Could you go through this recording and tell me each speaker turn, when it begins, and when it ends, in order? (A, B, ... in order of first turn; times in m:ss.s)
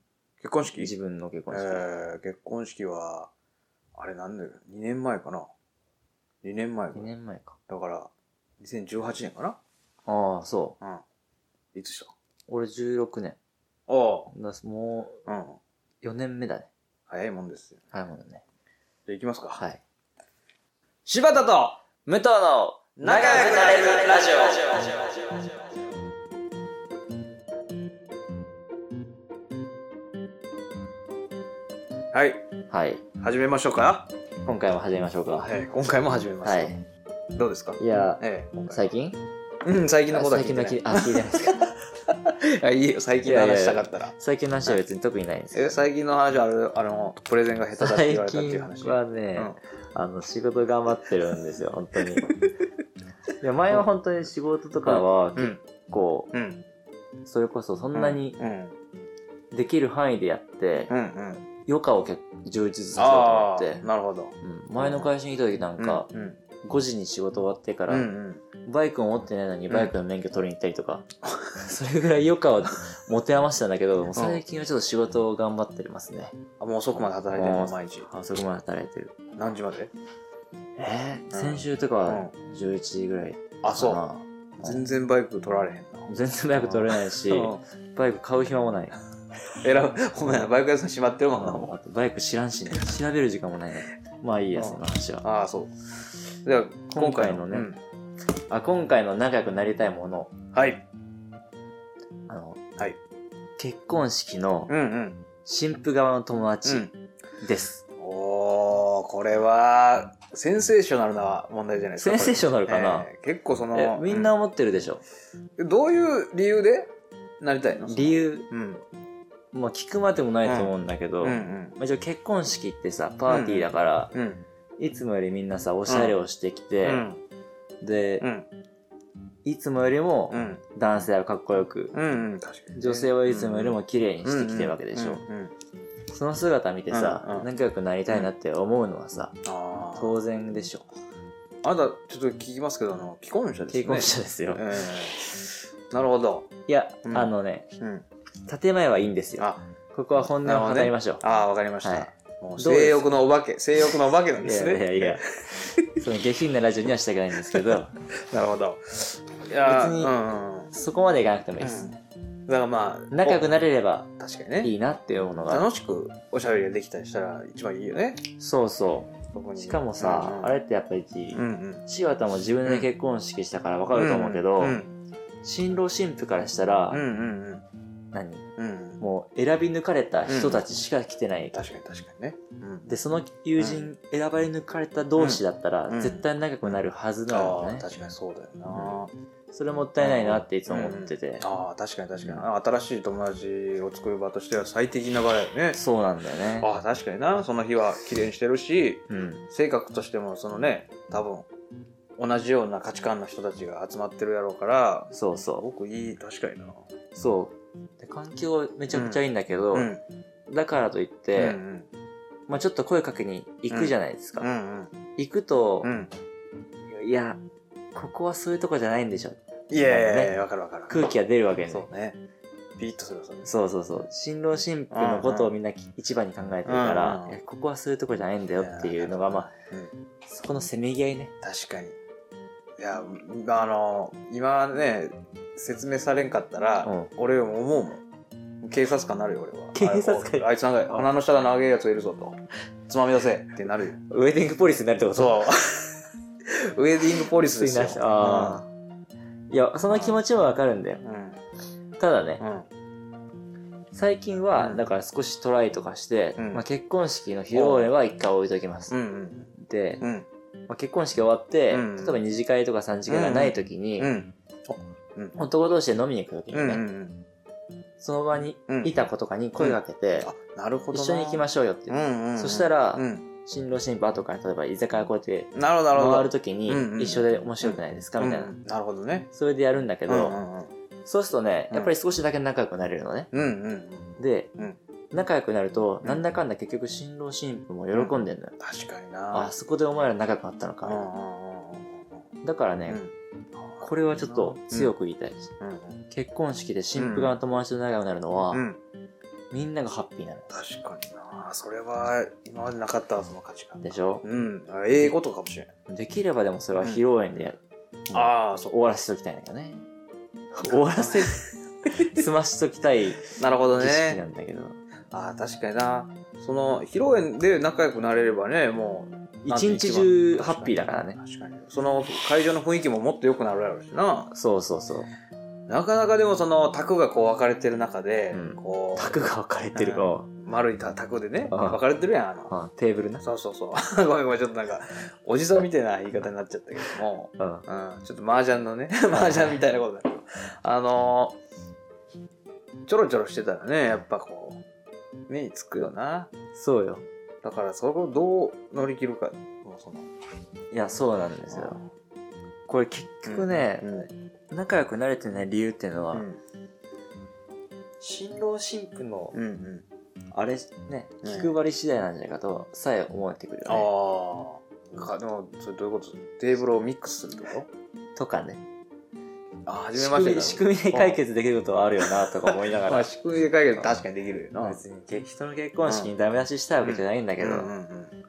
0:00.4-0:00.9 A
0:00.8-0:01.8 B
0:01.5-0:03.3 A
0:04.0-0:05.5 A
0:06.4-0:07.1 A
0:06.9-0:07.6 B
0:07.7-0:09.6 A
0:10.1-0:10.8 B
0:11.7-0:12.1 A
0:12.5-0:13.4 B
0:13.9-0:14.3 A
0:14.3-0:15.2 B
0:15.2-0:15.6 A
0:16.0-0:16.7 B
0:17.1-0:17.8 A
0:17.9-0:18.4 B
0:19.1-0:19.6 A
0:21.0-0:21.8 A
0:22.0-0:25.0 B
0:23.0-0:24.9 A
0:32.1-0:32.4 A
0:32.7-0:33.0 B
0:33.2-0:34.1 A
0:34.4-0:35.5 B
0:35.4-0:36.7 A
0:36.4-0:36.8 B
0:37.3-0:38.9 A
0:37.8-0:39.2 B
0:39.6-0:44.1 A
0:40.1-0:41.7 B
0:43.2-0:45.8 B
0:45.5-0:49.6 A
0:47.8-0:52.3 B
0:52.1-0:52.5 A
0:53.4-0:56.3 B
0:54.8-0:55.6 A
0:56.3-0:56.6 A
0:57.2-0:58.4 B
0:57.9-0:58.8 A
0:59.5-1:00.9 B
1:00.9-1:01.5 A
1:01.6-1:03.8 B
1:03.0-1:05.1 A
1:04.4-1:06.1 B
1:05.8-1:06.4 A
1:06.6-1:08.1 B
1:07.9-1:08.4 A
1:08.6-1:11.0 B
1:11.6-1:16.4 B
1:14.1-1:14.4 A
1:16.6-1:18.1 A
1:17.3-1:19.2 B
1:19.4-1:19.9 A
1:20.8-1:24.8 B
1:21.3-1:22.3 A
1:23.6-1:24.0 A
1:24.6-1:27.6 A
1:26.1-1:29.0 B
1:29.6-1:31.8 A
1:31.3-1:35.2 B
1:34.6-1:35.7 A
1:36.4-1:37.8 A
1:36.9-1:37.7 B
1:38.5-1:40.4 B
1:40.5-1:40.8 A
1:42.3-1:42.6 B
1:43.6-1:44.7 B
1:44.7-1:45.2 A
1:45.4-1:46.9 B
1:46.6-1:46.9 A
1:47.4-1:47.8 B
1:48.0-1:54.3 A
1:52.0-1:53.1 B
1:53.7-1:55.0 B
1:55.6-1:58.8 A
1:57.9-1:58.4 B
1:59.5-2:04.1 B
2:00.4-2:01.8 A
2:03.3-2:04.4 A
2:04.8-2:07.0 B
2:05.9-2:06.2 A
2:06.8-2:07.2 A
2:07.8-2:08.3 B
2:08.2-2:08.5 A
2:09.4-2:11.9 B
2:10.3-2:10.6 A
2:11.9-2:15.5 A
2:12.7-2:15.2 B
2:16.1-2:19.4 B
2:16.9-2:17.5 A
2:19.4-2:20.2 A
2:20.0-2:20.8 B
2:21.6-2:25.2 A
2:23.7-2:24.6 B
2:25.2-2:25.5 B
2:25.9-2:26.5 A
2:26.7-2:27.7 B
2:27.0-2:28.0 A
2:28.5-2:31.2 B
2:29.4-2:29.6 A
2:30.4-2:35.2 A
2:31.8-2:33.0 B
2:34.4-2:37.9 B
2:38.3-2:40.7 A
2:39.6-2:40.1 B
2:40.7-2:41.9 B
2:41.6-2:43.5 A
2:43.1-2:44.1 B
2:44.2-2:44.7 A
2:44.6-2:45.6 B
2:45.5-2:48.2 A
2:48.4-2:54.8 B
2:49.3-2:50.5 A
2:51.3-2:51.8 A
2:53.9-2:54.9 A
2:55.4-2:57.0 B
2:56.9-2:57.6 A
2:58.1-2:58.4 B
2:58.6-2:59.0 A
2:59.0-3:01.5 B
3:00.3-3:00.6 A
3:01.5-3:02.9 A
3:02.9-3:07.8 B
3:03.6-3:03.9 A
3:05.2-3:09.1 A
3:08.7-3:09.0 B
3:09.5-3:11.5 B
3:10.0-3:15.8 A
3:15.7-3:16.7 B
3:16.6-3:21.5 A
3:19.1-3:19.4 B
3:22.2-3:26.8 A
3:25.1-3:25.6 B
3:27.1-3:29.9 B
3:28.9-3:30.0 A
3:30.5-3:31.6 B
3:31.3-3:31.9 A
3:32.5-3:34.5 B
3:33.7-3:35.0 A
3:35.2-3:35.9 B
3:35.8-3:36.1 A
3:36.9-3:37.4 B
3:37.9-3:40.3 B
3:39.7-3:40.9 A
3:40.9-3:41.9 B
3:41.7-3:42.2 A
3:42.8-3:43.5 A
3:43.4-3:49.5 B
3:44.9-3:45.5 A
3:46.6-3:47.4 A
3:48.6-3:49.9 A
3:50.3-3:51.3 B
3:51.4-3:52.0 A
3:52.8-3:58.0 A
3:56.8-3:57.1 B
3:58.6-4:02.4 A
3:59.7-4:01.1 B
4:02.9-4:04.0 A
4:04.1-4:05.4 B
4:05.1-4:06.0 A
4:06.5-4:08.6 A
4:07.4-4:08.7 B
4:09.5-4:11.0 B
4:09.9-4:10.2 A
4:11.0-4:11.4 A
4:12.0-4:12.4 B
4:12.4-4:12.7 A
4:13.9-4:18.9 B
4:16.4-4:16.6 A
4:17.5-4:17.9 A
4:18.9-4:20.3 A
4:19.6-4:20.0 B
4:20.7-4:24.1 B
4:21.7-4:22.2 A
4:23.1-4:25.4 A
4:25.4-4:26.8 B
4:26.5-4:27.2 A
4:28.0-4:30.3 B
4:28.7-4:29.0 A
4:29.6-4:33.3 A
4:30.9-4:38.5 B
4:35.5-4:39.3 A
4:39.3-4:40.4 B
4:40.1-4:40.7 A
4:41.0-4:43.3 B
4:43.3-4:44.8 A
4:44.2-4:44.5 B
4:45.1-4:48.5 B
4:47.9-4:49.5 A
4:49.3-4:51.0 B
4:50.8-4:52.0 A
4:52.4-4:53.0 B
4:52.9-4:54.9 A
4:53.8-4:55.5 B
4:55.6-4:56.0 A
4:56.1-4:58.6 B
4:57.0-4:57.3 A
4:58.5-4:58.8 A
4:59.5-5:00.6 B
5:00.5-5:05.7 A
5:03.8-5:04.2 B
5:05.9-5:07.6 B
5:08.1-5:09.8 B
5:08.1-5:08.8 A
5:10.6-5:14.8 B
5:10.9-5:11.4 A
5:13.3-5:14.2 A
5:15.1-5:24.3 A
5:19.4-5:21.2 B
5:24.3-5:25.1 B
5:25.7-5:29.2 A
5:28.3-5:30.3 B
5:29.7-5:32.5 A
5:31.5-5:31.8 B
5:32.5-5:33.2 B
5:33.2-5:41.4 A
5:37.4-5:37.6 B
5:39.1-5:39.5 B
5:42.8-5:44.6 A
5:45.3-5:46.3 A
5:46.5-5:47.0 B
5:47.4-5:50.1 A
5:50.7-5:51.8 B
5:51.5-5:51.8 A
5:52.7-5:56.2 B
5:53.2-5:54.1 A
5:56.1-5:56.4 A
5:58.0-5:59.4 B
5:59.3-5:59.8 A
6:00.3-6:03.9 B
6:01.2-6:01.5 A
6:03.6-6:07.7 A
6:08.2-6:08.6 B
6:09.6-6:11.2 A
6:09.9-6:13.1 B
6:12.2-6:14.8 A
6:14.6-6:17.7 B
6:15.8-6:16.1 A
6:16.8-6:18.1 A